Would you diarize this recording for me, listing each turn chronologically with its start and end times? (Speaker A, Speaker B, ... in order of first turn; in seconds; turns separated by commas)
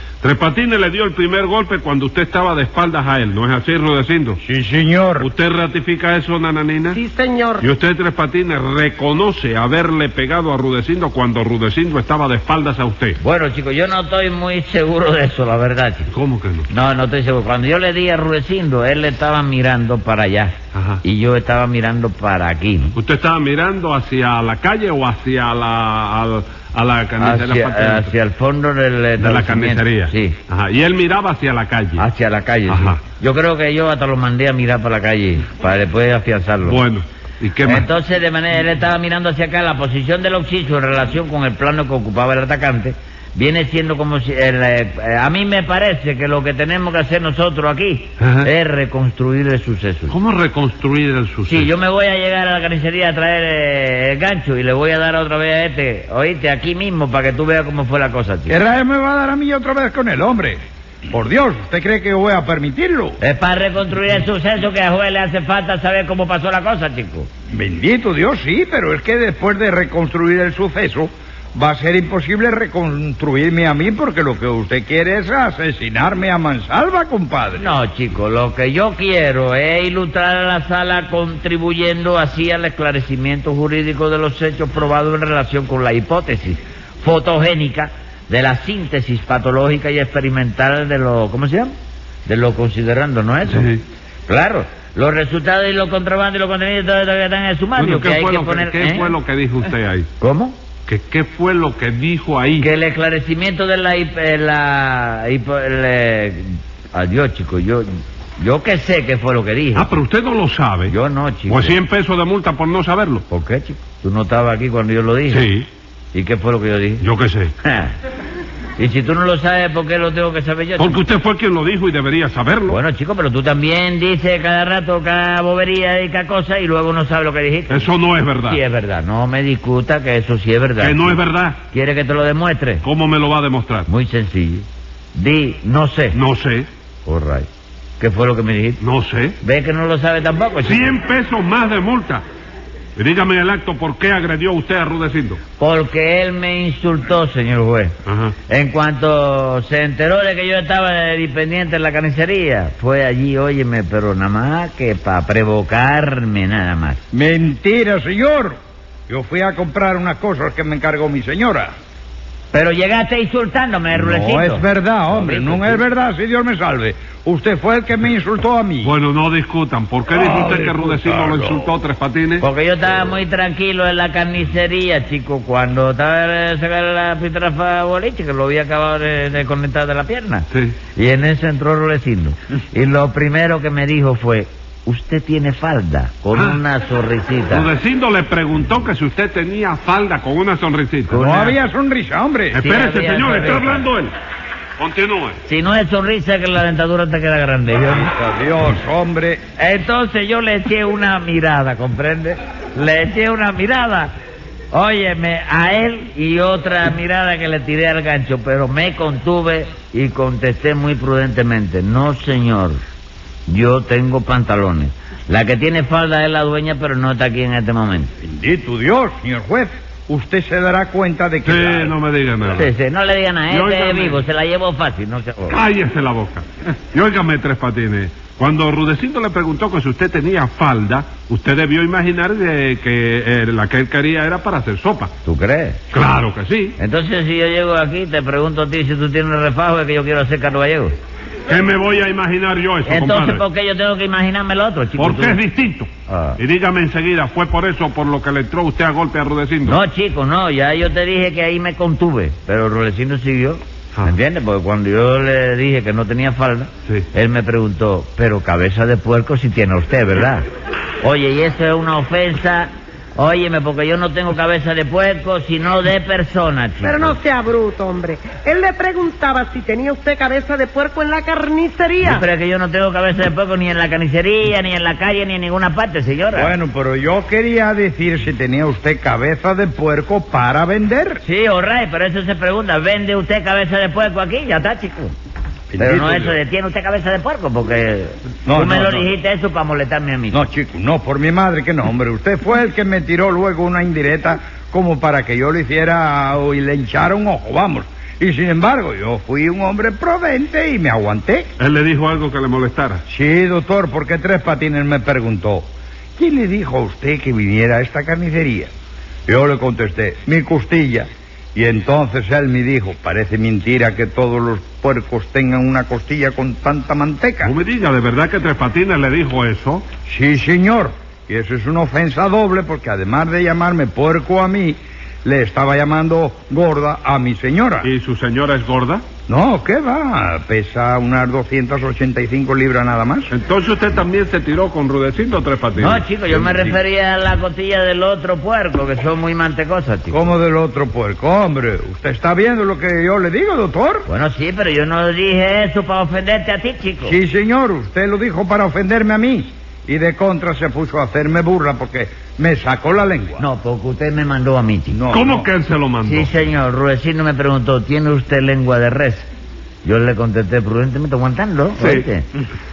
Speaker A: 0.2-4.4, Speaker B: 4.4-5.3, Speaker A: 5.2-7.0, Speaker C: 6.9-7.7, Speaker A: 7.6-13.2, Speaker D: 13.2-16.1, Speaker A: 16.1-16.7, Speaker D: 16.7-22.9, Speaker A: 20.7-21.0, Speaker A: 22.9-28.1, Speaker D: 27.2-30.4, Speaker A: 29.2-32.0, Speaker D: 32.0-36.8, Speaker A: 32.7-33.0, Speaker A: 36.6-37.9, Speaker D: 37.6-50.1, Speaker A: 48.2-48.5, Speaker A: 50.1-51.7, Speaker D: 51.5-58.6, Speaker B: 58.5-63.2, Speaker D: 63.2-67.3, Speaker B: 67.5-77.7, Speaker D: 77.5-91.7, Speaker D: 92.2-93.8, Speaker A: 93.5-93.8, Speaker D: 94.3-99.1, Speaker A: 97.8-100.1, Speaker D: 100.2-100.6, Speaker A: 100.8-102.7, Speaker D: 102.6-107.9, Speaker D: 108.4-109.9, Speaker A: 109.7-110.9, Speaker D: 110.9-111.8, Speaker A: 111.5-113.2, Speaker D: 113.3-115.4, Speaker A: 115.3-115.7, Speaker D: 116.1-117.0, Speaker A: 117.0-117.5, Speaker D: 117.6-117.9, Speaker D: 118.8-121.0, Speaker A: 120.8-122.8, Speaker D: 122.7-127.9, Speaker A: 127.7-128.6, Speaker D: 128.4-132.8, Speaker A: 130.8-131.6, Speaker A: 132.8-133.9, Speaker D: 133.9-136.2, Speaker A: 136.1-136.7, Speaker D: 137.0-137.5, Speaker D: 138.0-138.8, Speaker A: 138.8-139.4, Speaker D: 139.4-140.9, Speaker A: 140.6-142.2, Speaker A: 142.9-145.4, Speaker D: 145.6-147.9, Speaker A: 148.1-148.3, Speaker D: 148.5-157.0, Speaker B: 157.1-161.7, Speaker D: 162.5-165.8, Speaker B: 163.9-168.9, Speaker A: 168.8-172.4, Speaker B: 170.1-171.7, Speaker D: 172.4-187.7, Speaker A: 180.5-180.8, Speaker A: 186.3-186.6, Speaker A: 187.5-191.1, Speaker D: 191.1-191.6, Speaker B: 191.1-192.6, Speaker A: 192.5-194.1, Speaker D: 192.6-193.8, Speaker A: 194.8-195.4, Speaker D: 195.4-198.1, Speaker B: 197.9-199.4, Speaker D: 199.6-204.1, Speaker D: 204.7-212.8, Speaker D: 213.4-218.1, Speaker B: 218.2-221.9, Speaker A: 221.4-222.7, Speaker D: 222.5-225.6, Speaker A: 223.5-224.2, Speaker A: 225.5-235.1, Speaker D: 235.2-235.8, Speaker A: 235.9-236.8, Speaker D: 236.8-240.9, Speaker A: 241.5-243.4, Speaker D: 242.8-245.4, Speaker A: 245.0-249.8, Speaker D: 246.1-246.4, Speaker D: 249.6-260.4, Speaker D: 261.0-267.2, Speaker C: 266.8-272.2, Speaker D: 272.0-276.5, Speaker B: 276.3-281.2, Speaker D: 281.2-285.1, Speaker B: 285.7-286.4, Speaker D: 285.8-290.4, Speaker B: 288.4-289.1, Speaker B: 290.3-301.5, Speaker A: 301.6-303.0, Speaker B: 303.1-305.6, Speaker B: 306.2-308.7, Speaker B: 309.3-317.5, Speaker A: 317.4-319.9, Speaker B: 320.1-327.9, Speaker A: 327.8-329.0, Speaker B: 329.3-333.3, Speaker A: 333.3-336.0, Speaker D: 335.7-340.3, Speaker B: 336.3-336.8, Speaker B: 340.1-344.1, Speaker D: 344.1-347.2, Speaker B: 347.0-353.4, Speaker D: 353.4-355.0, Speaker B: 354.9-355.5, Speaker A: 355.1-356.4, Speaker D: 356.0-359.3, Speaker D: 359.8-362.3, Speaker A: 361.8-362.0